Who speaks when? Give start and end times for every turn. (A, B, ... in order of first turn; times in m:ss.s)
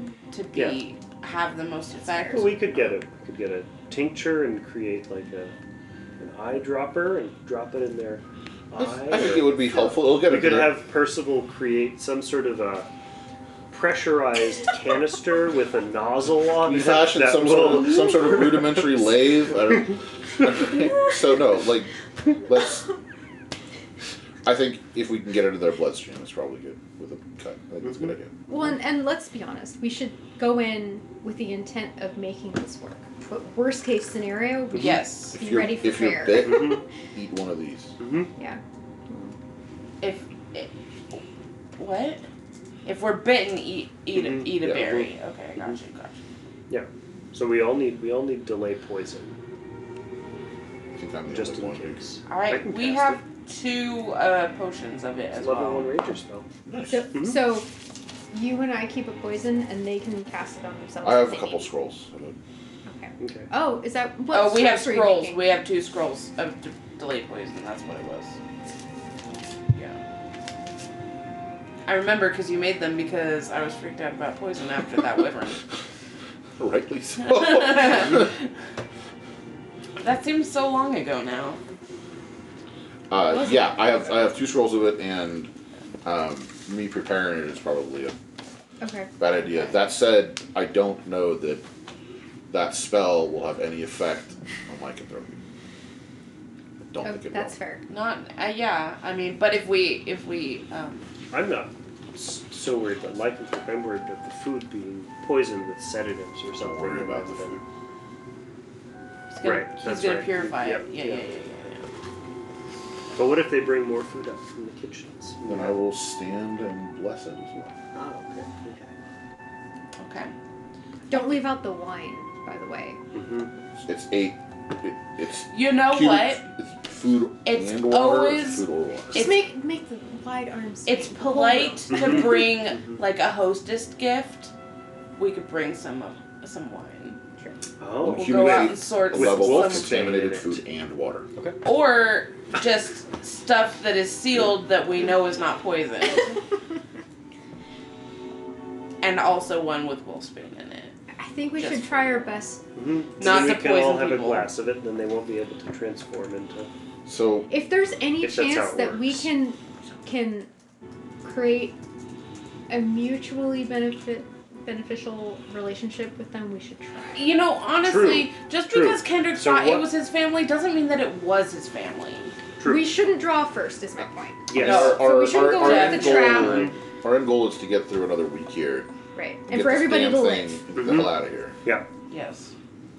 0:00.3-0:02.6 A
0:00.5-0:00.8 B
0:02.0-0:02.6 C
0:02.3-0:05.6 B
0:06.2-0:12.9 B
0:08.8-0:10.8 D
0:13.7-0:18.9 B
0:16.6-0:22.9 D
0:24.4-0:28.4 D
0:27.8-0:28.1 B
0:28.5-0:36.8 C
0:34.8-0:35.4 A
0:35.3-0:38.0 D
0:36.4-0:36.8 B
0:38.0-0:38.3 B
0:38.4-0:39.3 C
0:40.0-0:41.2 A
0:41.8-0:42.2 A
0:42.8-0:46.2 A
0:44.1-0:45.1 B
0:46.7-0:49.3 B
0:51.0-0:52.0 D
0:51.3-0:53.2 B
0:52.3-0:55.9 A
0:55.3-0:56.5 B
0:56.7-0:57.1 D
0:56.9-0:57.7 C
0:57.1-0:57.4 B
0:58.3-1:01.7 C
1:01.0-1:02.4 D
1:02.9-1:05.4 C
1:03.2-1:03.5 B
1:04.3-1:08.4 A
1:09.7-1:10.0 A
1:11.9-1:15.6 A
1:16.6-1:18.3 D
1:17.3-1:18.4 A
1:20.0-1:21.6 A
1:23.1-1:25.5 D
1:23.4-1:23.6 C
1:26.0-1:28.1 D
1:28.8-1:29.1 C
1:29.2-1:31.6 D
1:32.5-1:35.4 D
1:36.8-1:37.5 D
1:37.0-1:37.8 C
1:37.9-1:41.1 A
1:41.3-1:47.6 B
1:46.6-1:47.6 D
1:49.3-1:51.9 A
1:49.4-1:51.2 B
1:53.1-1:55.8 B
1:55.5-1:57.8 D
1:57.9-1:58.9 B
2:00.0-2:00.3 A
2:01.1-2:03.0 C
2:03.1-2:03.5 B
2:03.8-2:09.3 D
2:05.5-2:06.5 A
2:07.4-2:09.4 A
2:09.1-2:12.1 C
2:10.9-2:14.5 A
2:11.9-2:12.5 B
2:15.2-2:17.2 A
2:17.8-2:20.6 B
2:18.0-2:21.3 D
2:18.1-2:20.0 A
2:21.6-2:26.4 A
2:29.0-2:31.0 A
2:31.1-2:32.6 C
2:31.6-2:32.3 A
2:32.8-2:36.7 B
2:33.2-2:34.5 A
2:37.1-2:37.5 D
2:37.5-2:40.5 C
2:38.2-2:39.2 B
2:41.2-2:41.8 C
2:42.7-2:47.3 C
2:47.2-2:52.4 A
2:47.8-2:49.9 B
2:52.6-2:52.9 B
2:52.6-2:56.7 C
2:54.5-2:55.0 B
2:54.5-2:58.9 D
2:54.6-2:56.6 A
2:56.2-2:56.8 B
2:59.2-3:00.6 C
2:59.5-3:01.6 D
3:00.8-3:01.9 B
3:02.1-3:02.5 A